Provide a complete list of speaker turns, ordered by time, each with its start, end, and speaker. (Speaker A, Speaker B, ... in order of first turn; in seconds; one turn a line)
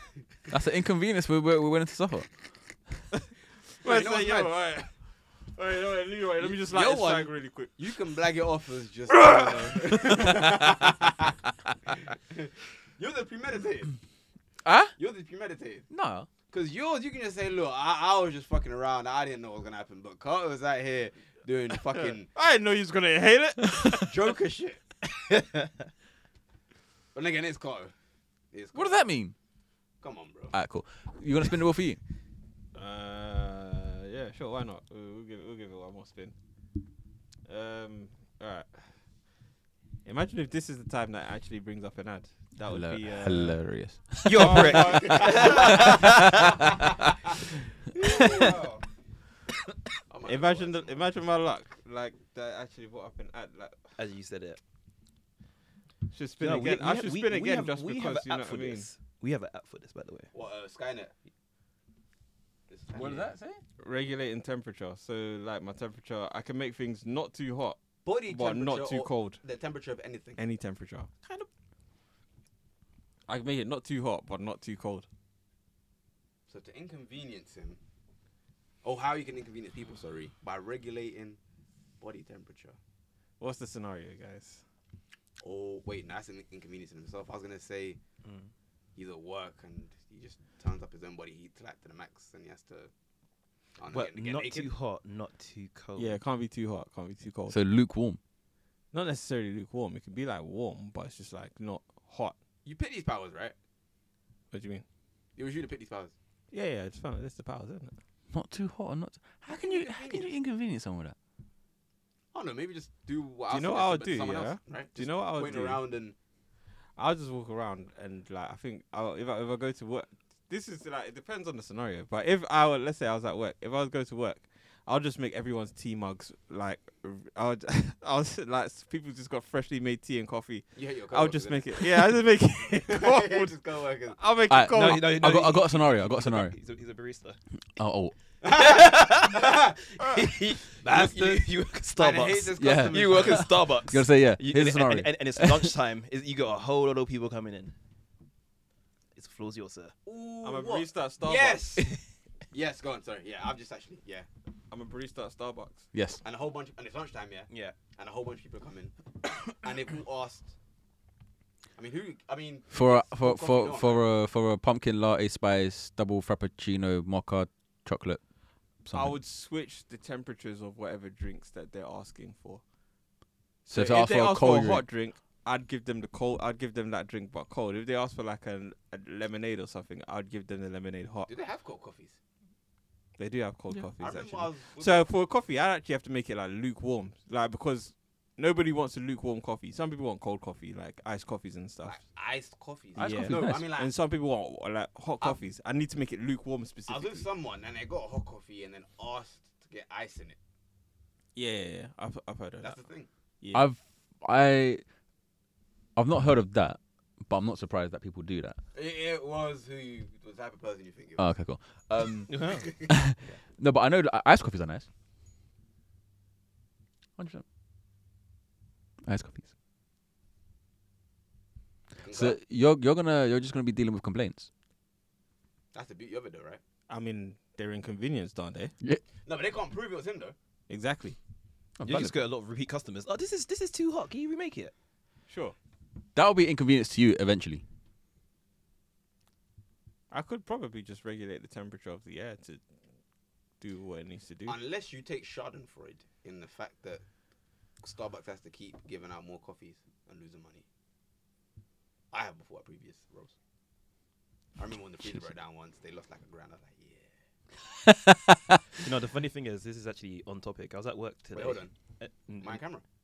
Speaker A: 0.5-2.3
Speaker B: 3.8-4.9
Speaker C: 3.8-4.7
Speaker B: 5.5-7.7
Speaker C: 6.4-11.3
Speaker B: 9.3-9.9
Speaker C: 11.9-14.0
Speaker A: 14.6-15.0
Speaker C: 15.0-15.9
Speaker A: 15.9-16.3
Speaker C: 16.5-22.3
Speaker B: 21.9-24.1
Speaker C: 23.9-24.8
Speaker D: 25.1-25.8
Speaker C: 27.1-27.9
Speaker C: 28.5-29.0
Speaker A: 28.7-29.3
Speaker C: 30.0-30.5
Speaker A: 30.5-32.0
Speaker B: 32.8-36.4
Speaker B: 37.5-38.9
Speaker B: 40.0-43.6
Speaker A: 42.6-47.0
Speaker D: 44.2-46.4
Speaker B: 44.4-45.7
Speaker C: 44.8-45.9
Speaker C: 48.0-48.8
Speaker B: 48.3-48.6
Speaker C: 50.1-51.1
Speaker B: 50.2-53.8
Speaker D: 54.0-54.6
Speaker B: 56.1-58.9
Speaker D: 56.4-60.3
Speaker C: 60.3-61.1
Speaker C: 62.7-63.3
Speaker A: 62.9-63.6
Speaker B: 63.8-69.4
Speaker C: 68.0-70.4
Speaker B: 70.4-71.1
Speaker D: 71.2-71.5
Speaker B: 73.3-75.1
Speaker C: 76.5-77.8
Speaker C: 78.8-81.4
Speaker C: 82.0-82.8
Speaker B: 83.4-84.6
Speaker C: 85.4-88.0
Speaker D: 88.2-88.5
Speaker C: 89.0-92.9
Speaker C: 93.8-94.7
Speaker D: 93.9-96.2
Speaker B: 96.0-97.6
Speaker A: 97.5-98.2
Speaker B: 98.9-102.3
Speaker C: 102.7-103.5
Speaker B: 104.5-104.8
Speaker C: 105.4-106.1
Speaker B: 106.5-107.9
Speaker A: 108.3-111.2
Speaker C: 109.5-110.3
Speaker C: 112.3-116.2
Speaker B: 113.5-115.8
Speaker B: 117.0-133.5
Speaker C: 130.8-132.1
Speaker C: 132.6-134.2
Speaker B: 134.1-135.5
Speaker A: 134.5-136.6
Speaker D: 134.7-137.4
Speaker A: 137.8-138.2
Speaker C: 138.4-140.2
Speaker D: 138.5-147.8
Speaker C: 140.8-143.5
Speaker A: 142.6-145.7
Speaker D: 149.2-149.9
Speaker C: 150.1-151.9
Speaker B: 150.4-151.8
Speaker D: 151.8-152.0
Speaker C: 152.5-154.3
Speaker B: 154.7-155.9
Speaker A: 155.9-156.2
Speaker C: 156.2-158.9
Speaker D: 157.5-157.8
Speaker C: 159.5-160.5
Speaker C: 161.8-164.1
Speaker A: 162.7-168.2
Speaker A: 168.8-169.2
Speaker B: 168.9-172.6
Speaker B: 173.7-181.3
Speaker A: 173.7-174.8
Speaker C: 181.3-182.2
Speaker B: 183.2-192.0
Speaker C: 184.0-185.1
Speaker C: 191.8-193.9
Speaker A: 193.0-193.7
Speaker B: 193.0-197.3
Speaker C: 196.9-200.4
Speaker B: 201.3-202.8
Speaker C: 202.6-203.1
Speaker B: 203.4-203.7
Speaker A: 203.5-204.8
Speaker A: 206.0-208.6
Speaker C: 208.7-213.3
Speaker A: 211.2-214.9
Speaker D: 212.3-212.7
Speaker A: 217.2-217.4
Speaker A: 219.0-219.5
Speaker C: 222.0-222.4
Speaker A: 222.1-224.5
Speaker C: 225.7-226.6
Speaker B: 226.9-228.7
Speaker C: 229.2-230.3
Speaker B: 230.7-231.2
Speaker A: 231.8-232.2
Speaker D: 231.8-234.7
Speaker B: 235.3-235.6
Speaker A: 236.2-237.6
Speaker B: 240.1-242.7
Speaker B: 243.6-244.6
Speaker C: 244.5-247.0
Speaker C: 247.8-250.7
Speaker C: 252.1-253.3
Speaker C: 254.6-257.1
Speaker A: 257.9-258.5
Speaker D: 258.8-262.6
Speaker C: 261.3-261.7
Speaker C: 262.4-262.8